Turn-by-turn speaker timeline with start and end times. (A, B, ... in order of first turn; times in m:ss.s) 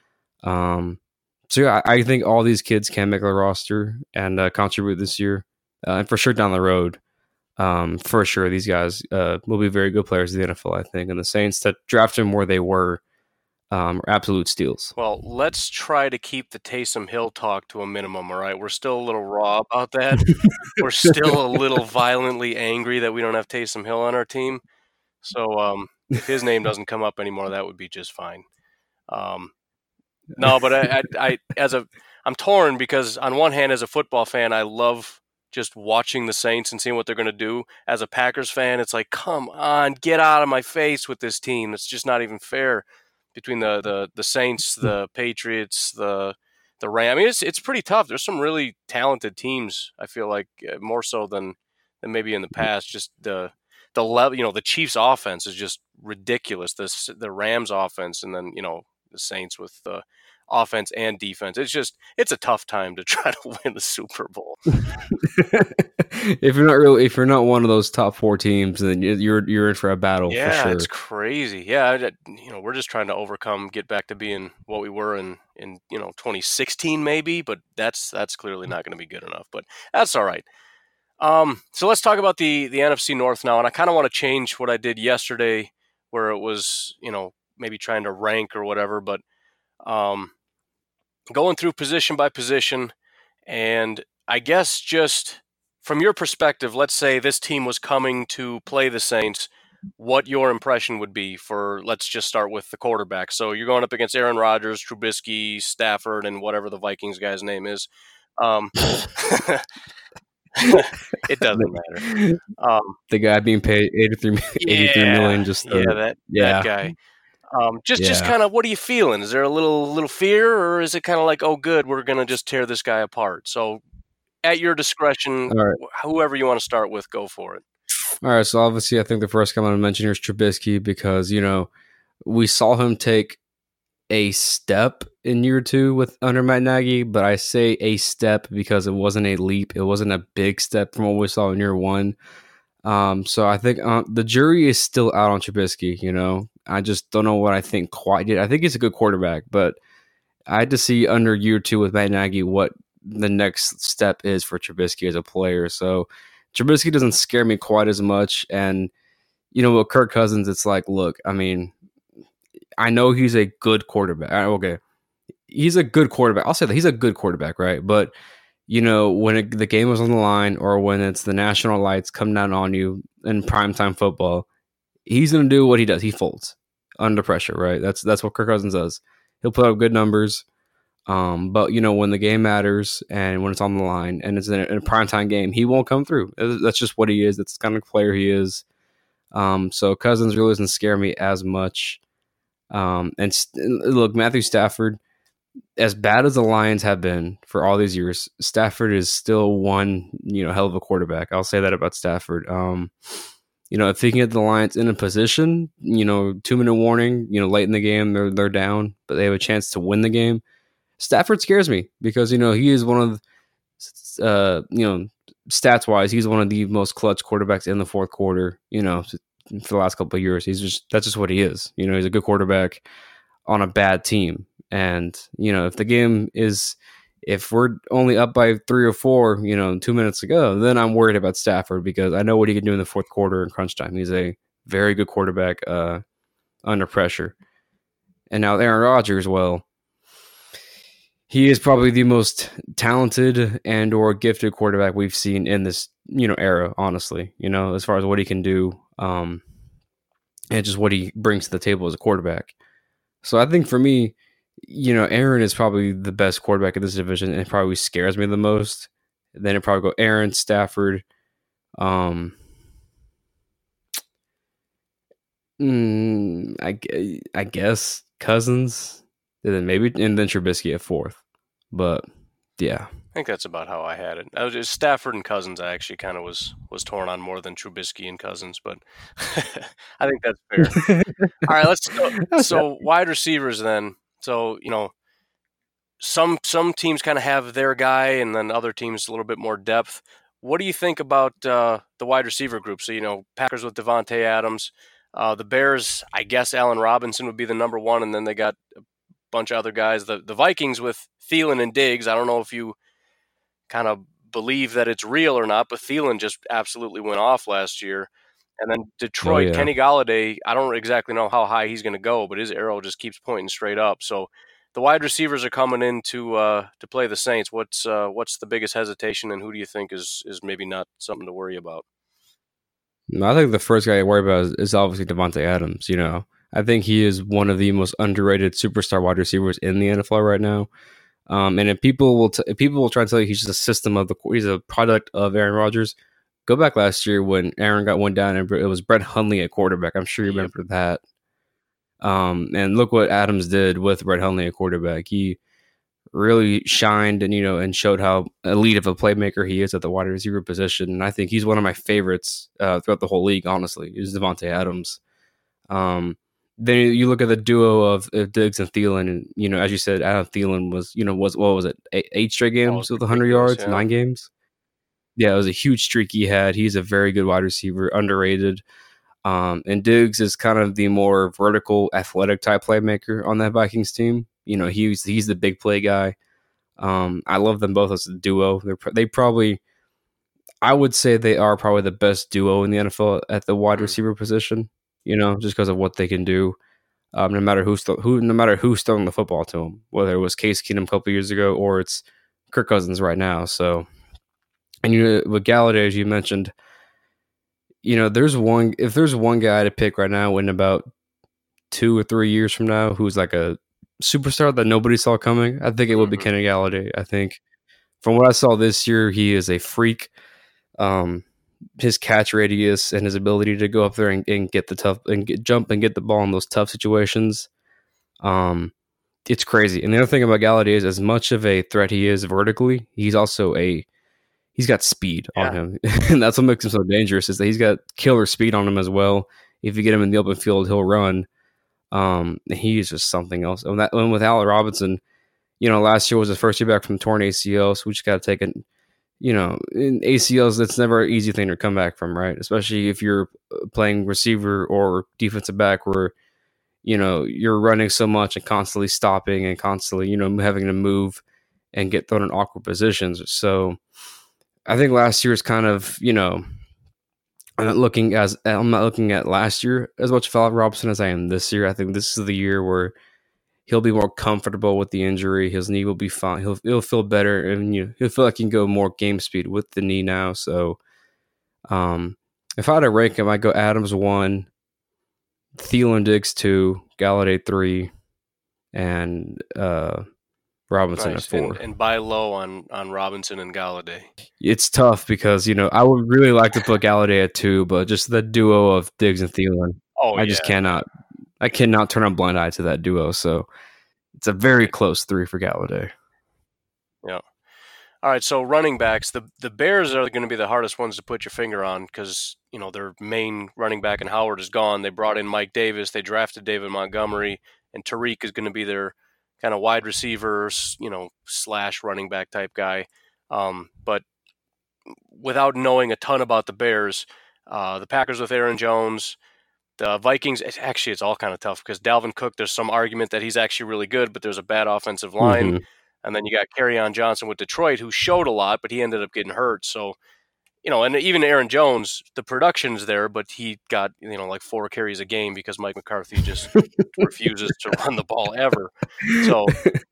0:00.4-0:07.0 A
0:07.6-0:13.0 A
0:13.7-0:15.0 A
0:15.0-0:24.6 B
0:20.2-0:20.5 A
0:25.2-0:28.4 B
0:29.1-0:29.5 B
0:30.4-0:30.9 A
0:30.4-1:04.6 B
1:05.1-1:10.9 A
1:10.3-1:20.5 B
1:21.2-1:29.2 B
1:29.8-1:30.3 B
1:31.3-1:32.9 B
1:33.5-1:49.6 B
1:50.6-1:52.0 B
1:51.5-1:52.4 A
1:52.6-1:53.0 B
1:53.1-1:56.7 A
1:54.6-1:56.9 B
1:57.5-2:03.8 B
1:58.0-1:58.3 A
2:04.4-2:07.6 B
2:05.5-2:05.8 A
2:08.2-2:11.7 A
2:12.2-2:13.4 A
2:14.1-2:22.2 A
2:22.8-2:29.8 A
2:30.5-2:38.9 A
2:39.5-2:41.7 A
2:42.8-2:44.8 A
2:45.5-2:48.1 A
2:48.7-2:54.5 A
2:55.1-3:00.4 A
3:01.1-3:08.6 A
3:09.3-3:12.0 A
3:12.7-3:15.0 A
3:15.8-3:22.9 A
3:23.7-3:30.4 A
3:31.0-3:33.2 A
3:33.8-3:42.8 A
3:43.5-3:56.0 A
3:56.6-3:57.4 A
3:58.3-3:59.6 A
4:01.3-4:09.4 A
4:10.5-4:12.5 A
4:13.2-4:21.0 A
4:21.8-4:22.4 A
4:25.6-4:31.2 A
4:31.7-4:32.1 A
4:32.6-4:32.9 A
4:33.2-4:40.8 B
4:40.6-4:41.5 A
4:41.4-4:44.9 B
4:42.2-4:42.6 A
4:46.0-4:58.6 B
4:59.3-5:02.8 B
5:03.7-5:08.1 B
5:08.6-5:21.8 B
5:09.2-5:09.7 A
5:23.1-5:30.7 A
5:31.3-5:41.0 A
5:40.2-5:40.5 B
5:42.0-5:45.4 A
5:46.1-5:55.0 A
5:55.7-6:04.3 A
6:02.6-6:03.8 B
6:05.2-6:08.6 A
6:09.2-6:16.2 A
6:16.8-6:19.6 A
6:20.6-6:26.6 A
6:27.1-6:33.9 A
6:34.8-6:36.5 A
6:37.8-6:40.9 A
6:41.7-6:47.4 A
6:45.9-6:46.3 B
6:48.0-6:50.1 A
6:50.8-6:51.3 A
6:51.8-6:57.5 A
6:58.2-6:58.7 A
6:59.3-7:03.9 A
7:04.6-7:11.3 A
7:11.9-7:15.0 A
7:15.6-7:18.6 A
7:19.2-7:26.1 A
7:26.8-7:31.2 A
7:31.7-7:33.8 A
7:34.7-7:36.4 A
7:37.6-7:43.0 A
7:43.7-7:50.8 A
7:51.7-7:54.5 A
7:55.6-7:57.9 A
7:58.7-8:00.0 A
8:00.7-8:01.6 A
8:01.0-8:04.1 B
8:04.4-8:10.9 A
8:10.0-8:10.6 B
8:11.4-8:13.5 A
8:14.1-8:15.9 A
8:18.0-8:34.0 B
8:35.1-8:39.2 B
8:39.8-8:50.0 B
8:45.2-8:45.6 A
8:50.6-8:59.6 B
8:59.0-8:59.8 A